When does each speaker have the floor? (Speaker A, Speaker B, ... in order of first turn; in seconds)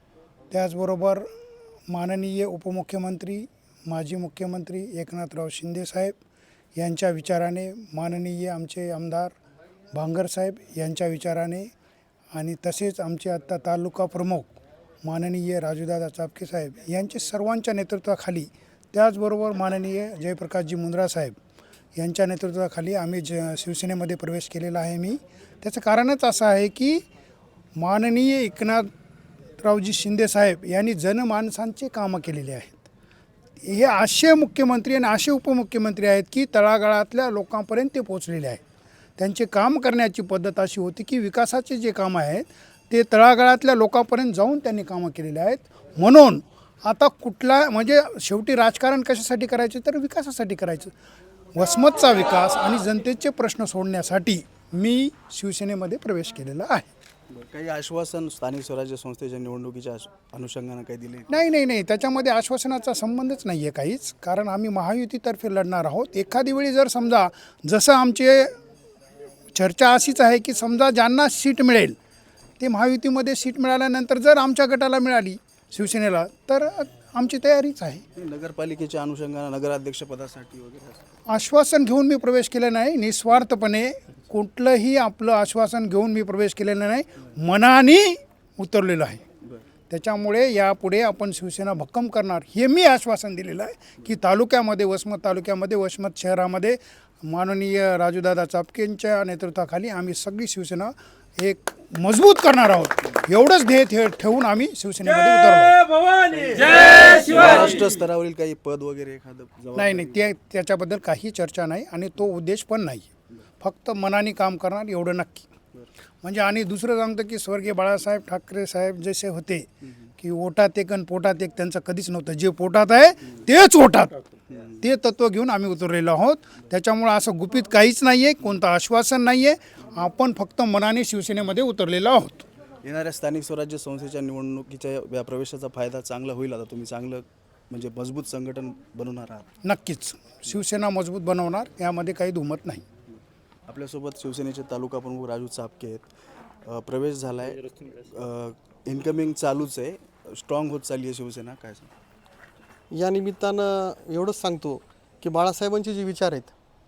Speaker A: 0.5-1.2, 1.9-6.1, 6.8-9.3, 9.9-11.7, 12.3-14.5, 15.0-21.3, 21.9-27.0, 27.8-28.9, 29.6-32.9, 33.6-38.6, 39.2-50.9, 51.5-56.9, 61.3-68.5, 69.5-72.0, 72.6-78.0, 81.3-89.2, 89.9-105.9, 109.7-113.1, 113.6-115.5, 116.2-119.7, 120.2-124.2, 124.8-132.5, 139.6-142.8
Speaker B: 57.3-61.3, 78.2-81.0, 106.0-110.2, 132.8-139.4, 143.7-146.1, 146.6-151.9
Speaker C: 152.9-156.5